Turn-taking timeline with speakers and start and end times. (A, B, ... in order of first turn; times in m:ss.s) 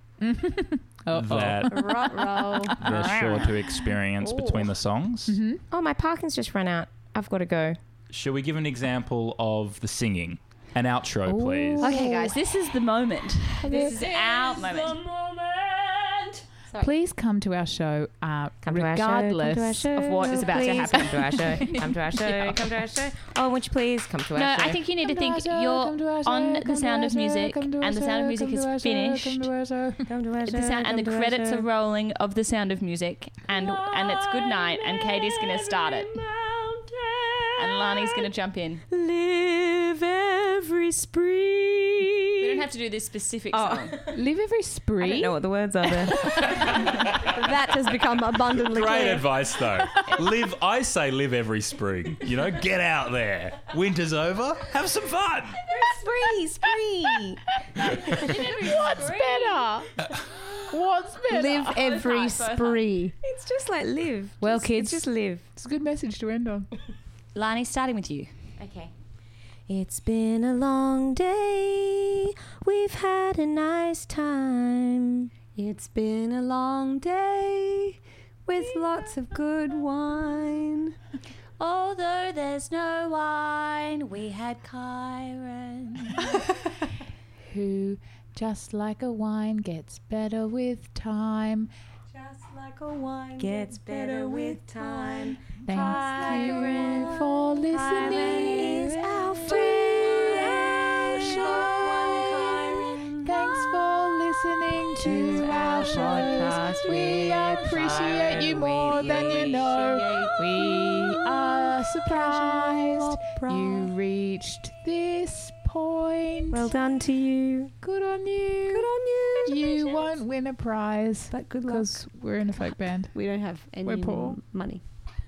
0:00.2-0:04.0 A
0:01.2-0:02.0 B
0:01.7-0:02.8 C
0:02.8-0:05.4 B
0:05.3-0:05.6 A
0:05.7-0:07.8 D
0:08.1-0:11.9 B
0:11.2-0:12.5 A
0:11.8-0:15.0 E
0:13.6-0:14.4 A
0:16.8-0:21.9 A
0:18.6-0:24.8 D
0:19.9-0:22.7 E
0:24.4-0:29.5 E
0:25.0-0:30.1 A
0:30.1-0:31.7 D
0:30.5-0:36.2 E
0:33.6-0:38.3 D
0:37.6-0:38.8 E
0:38.9-0:42.6 D
0:42.4-0:44.0 E
0:43.5-0:44.1 D
0:44.1-0:45.4 A
0:45.0-0:46.6 D
0:46.0-0:46.6 A
0:46.6-0:47.3 B
0:47.0-0:49.3 C
0:48.6-0:55.6 B
0:55.6-0:57.6 D
0:57.6-0:59.9 A
0:58.0-0:59.9 E
1:00.7-1:01.8 A
1:01.3-1:03.2 C
1:01.6-1:02.8 E
1:03.2-1:05.4 D
1:04.4-1:06.7 A
1:07.4-1:08.3 E
1:08.6-1:08.9 D
1:09.7-1:15.3 D
1:15.6-1:21.0 C
1:21.6-1:26.3 E
1:27.4-1:31.7 A
1:32.1-1:32.9 C
1:32.9-1:43.8 D
1:33.4-1:34.6 E
1:35.6-1:42.5 A
1:36.1-1:36.7 C
1:43.2-1:56.7 A
1:45.0-1:51.7 D
1:52.8-1:53.6 D
1:56.5-1:57.7 D
1:57.8-1:58.9 A
1:58.7-2:00.0 C
1:59.4-2:03.1 A
2:01.3-2:01.9 C
2:03.1-2:04.8 C
2:03.8-2:04.4 A